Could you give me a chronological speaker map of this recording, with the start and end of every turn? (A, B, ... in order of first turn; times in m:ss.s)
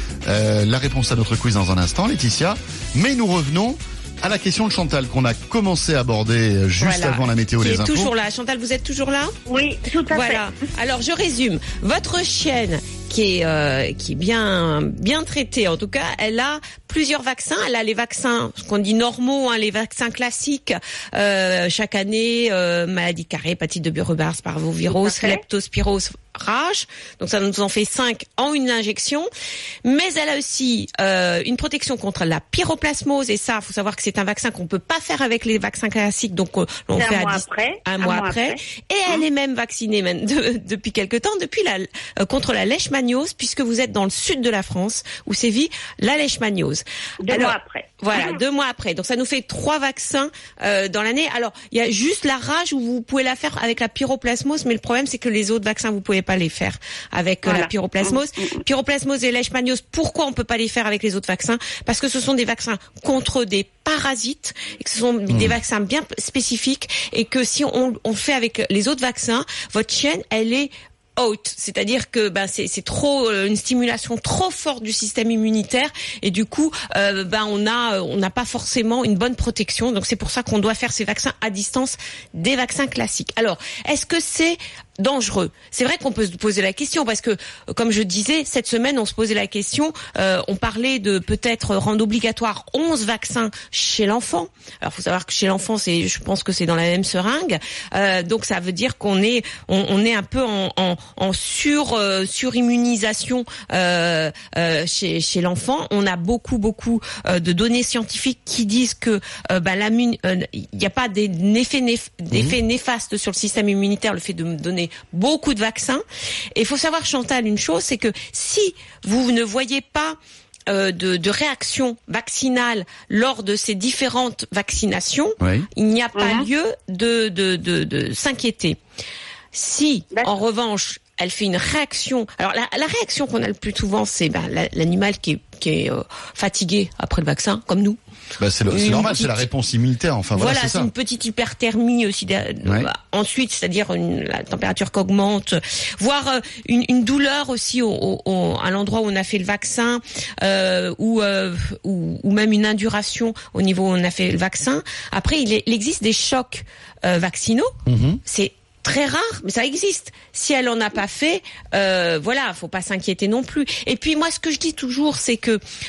0:00.3-0:08.1 A
0:06.8-0:09.4 B
0:09.5-0:10.5 C
0:10.1-0:29.3 B
0:24.9-0:25.4 C
0:29.8-2:08.8 B
0:37.0-0:38.6 C
0:47.2-0:48.4 C
0:57.4-0:58.5 C
1:05.3-1:05.6 A
2:05.4-2:05.7 A
2:06.2-2:06.5 C
2:09.5-2:18.0 B
2:18.4-2:20.9 A
2:18.7-2:19.4 B
2:20.4-2:45.6 B
2:37.9-2:38.2 A